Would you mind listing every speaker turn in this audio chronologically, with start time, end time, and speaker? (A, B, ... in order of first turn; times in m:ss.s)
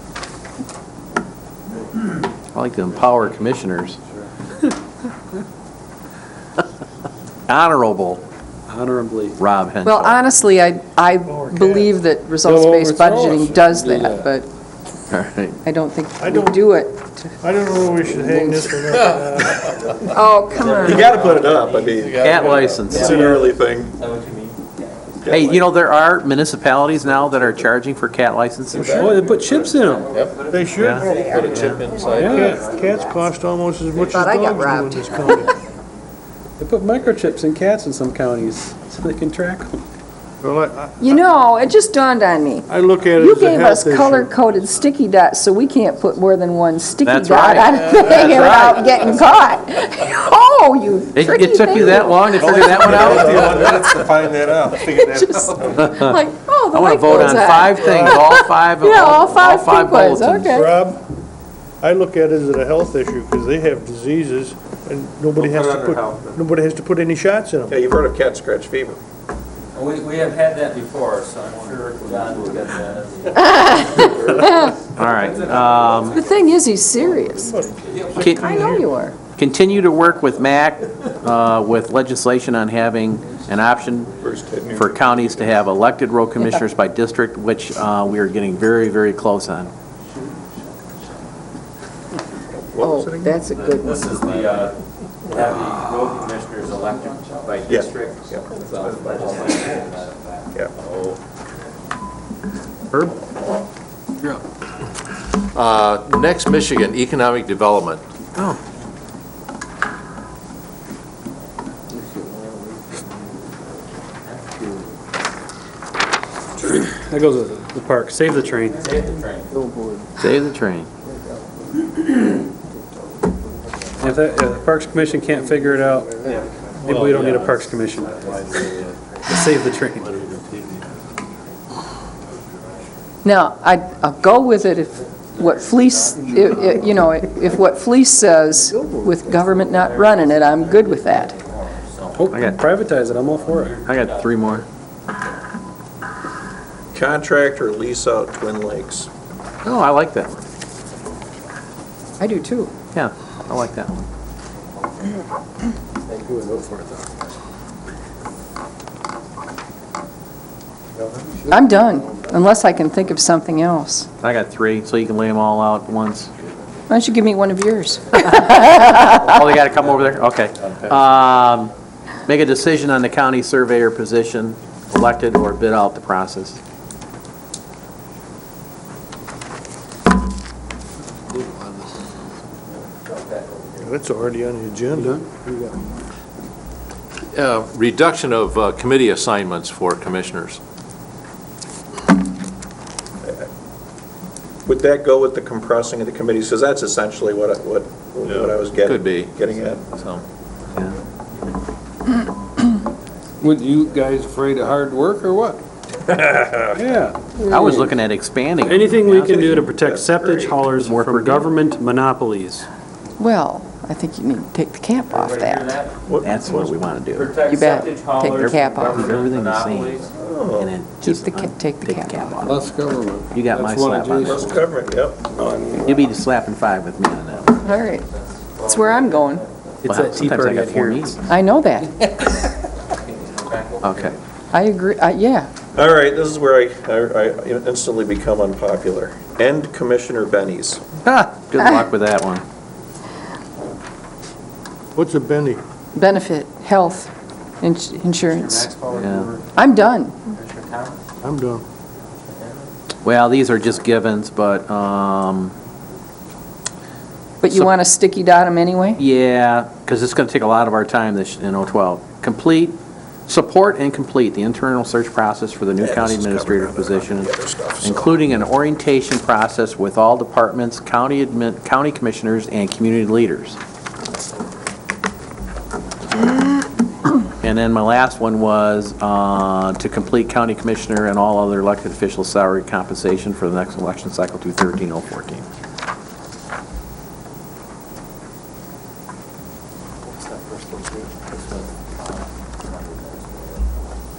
0:02.5-0:04.0 A
0:07.5-0:08.2 A
0:08.7-0:09.4 B
0:09.4-0:10.2 A
0:09.8-0:14.5 C
0:11.2-0:11.9 D
0:12.4-0:14.3 E
0:15.1-0:15.6 A
0:15.6-0:17.4 C
0:16.2-0:16.6 D
0:17.4-0:20.0 D
0:18.0-0:19.0 C
0:20.1-0:21.2 C
0:20.6-0:25.3 F
0:20.8-0:23.9 G
0:21.4-0:22.9 E
0:22.2-0:23.2 A
0:23.0-0:23.5 D
0:25.2-0:25.6 G
0:25.3-0:29.2 A
0:28.8-0:29.1 D
0:28.9-0:30.2 B
0:29.0-0:33.2 F
0:30.4-0:31.5 D
0:30.8-0:31.1 A
0:31.0-0:32.0 E
0:31.2-0:32.6 H
0:31.4-0:32.5 B
0:32.2-0:35.5 D
0:33.9-0:35.9 F
0:34.1-0:34.8 E
0:34.2-0:35.3 C
0:36.6-0:39.8 B
0:40.4-0:41.2 D
0:41.0-0:54.1 C
0:42.7-0:44.5 D
0:47.0-0:49.2 A
0:51.1-0:53.8 A
0:51.8-0:55.9 D
0:54.7-1:00.8 C
0:55.7-0:56.2 A
0:56.7-1:00.6 A
0:57.4-0:58.2 D
1:00.5-1:01.0 D
1:01.8-1:07.8 D
1:05.4-1:06.4 F
1:07.7-1:09.0 G
1:09.7-1:16.3 F
1:11.6-1:12.2 E
1:13.4-1:14.8 C
1:14.0-1:14.5 D
1:15.0-1:16.2 A
1:15.2-1:15.6 E
1:16.1-1:17.6 C
1:17.2-1:18.5 D
1:17.8-1:18.2 F
1:18.1-1:18.8 A
1:18.2-1:19.2 C
1:19.4-1:24.1 A
1:24.2-1:25.6 G
1:24.7-1:29.7 A
1:32.7-1:33.4 G
1:32.8-1:34.2 C
1:33.5-1:41.1 F
1:34.1-1:34.6 G
1:37.6-1:39.7 G
1:38.8-1:39.6 E
1:45.5-1:48.0 H
1:54.3-1:54.8 F
1:56.6-1:58.9 B
1:58.7-1:59.5 F
1:59.7-2:00.0 E
2:00.2-2:00.9 A
2:04.0-2:06.2 B
2:06.2-2:08.9 F
2:06.3-2:07.4 D
2:06.8-2:10.4 B
2:13.2-2:21.3 C
2:14.6-2:17.0 F
2:19.5-2:24.6 F
2:22.1-2:23.8 B
2:22.3-2:22.6 A
2:23.8-2:24.6 A
2:26.9-2:29.1 G
2:29.6-2:30.4 A
2:32.2-2:32.7 C
2:32.9-2:34.1 A
2:41.5-2:44.1 C
2:44.2-2:46.3 A
2:46.9-2:49.4 C
2:48.2-2:51.7 A
2:52.2-2:56.6 A
3:01.3-3:01.6 E
3:03.0-3:04.0 F
3:03.8-3:05.8 D
3:07.3-3:10.6 H
3:14.6-3:20.0 G
3:18.8-3:20.2 H
3:23.4-3:25.6 E
3:26.7-3:27.3 B
3:27.4-3:29.5 A
3:28.6-3:32.6 B
3:29.2-3:30.6 G
3:30.8-3:31.5 A
3:33.2-3:35.7 C
3:35.1-3:36.0 F
3:36.1-3:36.7 G
3:36.2-3:37.3 A
3:37.1-3:40.1 F
3:37.4-3:39.1 C
3:38.2-3:40.0 A
3:40.2-3:40.7 G
3:40.6-3:42.7 A
3:41.0-3:42.4 C
3:42.4-3:44.7 E
3:43.3-3:44.5 A
3:44.2-3:45.2 G
3:45.4-3:45.9 E
3:45.8-3:47.5 A
3:47.4-3:50.4 F
3:47.6-3:48.0 C
3:48.6-3:49.4 C
3:49.8-3:51.2 A
3:49.8-3:51.2 B
3:51.3-3:51.9 C
3:52.4-3:54.2 F
3:53.8-3:54.1 A
3:54.5-3:55.5 C
3:55.7-4:00.8 G
4:01.0-4:02.4 A
4:04.9-4:05.6 D
4:05.9-4:08.7 C
4:08.2-4:09.6 F
4:08.9-4:09.3 A
4:09.5-4:10.2 C
4:10.3-4:11.0 F
4:11.2-4:11.6 D
4:12.2-4:12.7 F
4:13.0-4:15.5 A
4:17.4-4:19.0 C
4:17.5-4:17.7 A
4:19.0-4:33.6 A
4:25.8-4:28.1 G
4:37.4-4:45.4 A
4:50.2-4:53.7 F